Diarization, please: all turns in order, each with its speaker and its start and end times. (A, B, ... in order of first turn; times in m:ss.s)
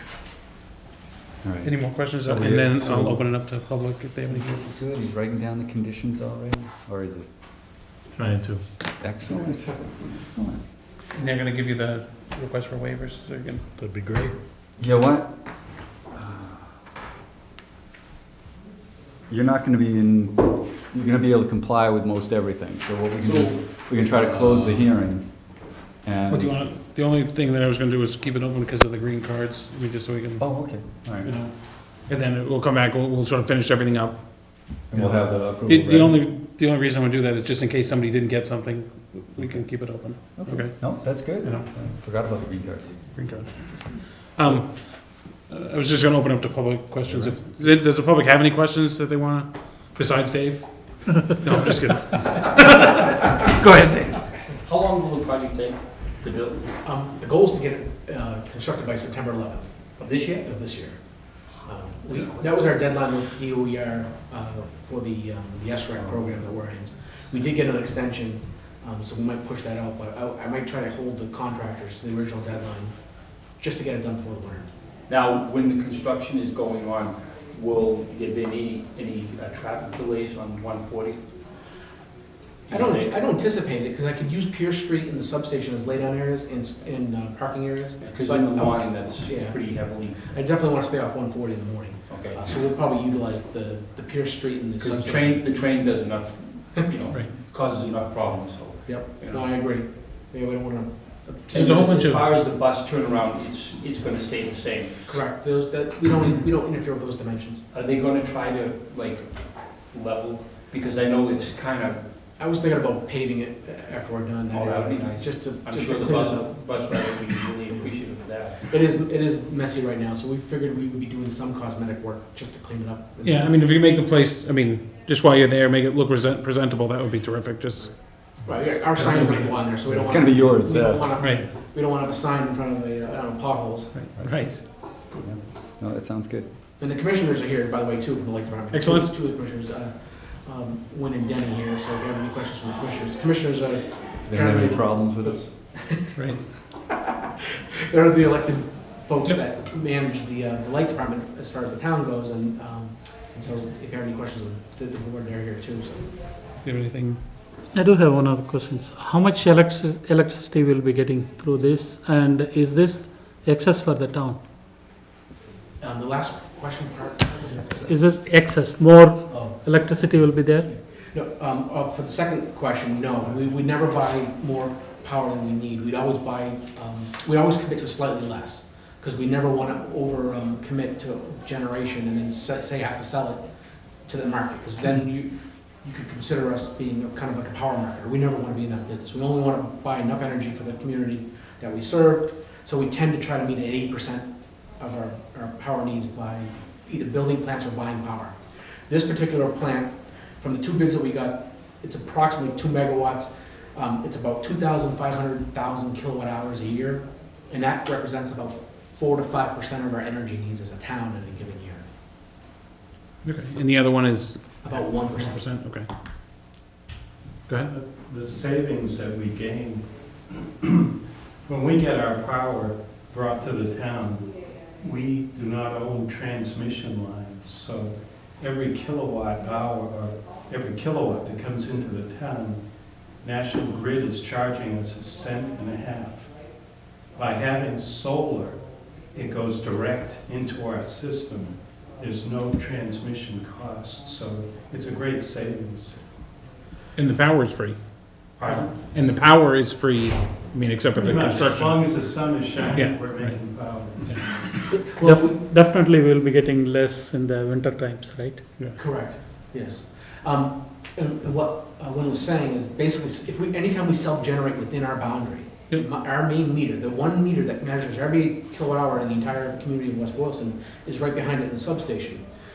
0:01.4-0:03.5 A
0:01.6-0:04.6 B
0:04.3-0:07.3 A
0:08.2-0:08.6 C
0:09.0-0:10.6 A
0:11.2-0:13.6 B
0:13.8-0:14.3 D
0:14.8-0:15.4 A
0:16.1-0:16.7 A
0:19.3-0:26.6 A
0:23.2-0:24.9 D
0:26.3-0:41.7 B
0:30.4-0:31.4 A
0:34.9-0:36.2 A
0:39.4-0:43.2 A
0:43.1-0:54.2 B
0:44.4-0:44.7 A
0:47.1-0:47.4 A
0:54.5-0:56.7 D
0:56.8-0:59.9 E
1:00.0-1:00.5 D
1:00.4-1:12.9 E
1:13.6-1:14.7 E
1:15.1-1:21.2 D
1:22.7-1:23.2 D
1:22.7-1:35.5 E
1:28.0-1:30.4 D
1:32.1-1:32.6 D
1:34.8-1:39.6 D
1:38.8-1:42.2 E
1:41.5-1:45.2 D
1:41.5-1:42.2 B
1:45.1-1:47.6 E
1:47.7-1:52.0 D
1:52.4-1:57.1 E
1:54.5-1:58.7 D
1:58.6-2:03.5 E
2:03.2-2:08.0 B
2:08.4-2:14.0 E
2:08.9-2:09.6 B
2:09.8-2:11.2 A
2:11.2-2:11.4 B
2:13.9-2:14.6 B
2:14.2-2:16.5 A
2:16.8-2:19.9 E
2:18.7-2:19.1 B
2:20.4-2:26.3 E
2:24.3-2:25.5 A
2:26.2-2:26.4 B
2:27.9-2:36.2 E
2:36.6-2:37.2 B
2:37.7-2:44.4 F
2:45.8-2:48.0 E
2:47.8-2:50.7 F
2:49.3-2:49.6 E
2:50.7-3:03.4 E
3:04.1-3:18.4 E
3:18.9-3:31.8 E
3:33.2-3:35.9 B
3:34.6-3:35.4 E
3:37.7-3:40.9 C
3:41.4-3:52.6 C
3:53.2-3:56.4 C
3:57.2-4:06.0 C
4:07.0-4:07.8 B
4:08.4-4:08.7 C
4:08.8-4:11.9 B
4:10.9-4:14.7 C
4:12.7-4:14.3 B
4:14.7-4:15.4 E
4:14.8-4:18.6 F
4:18.8-4:32.2 E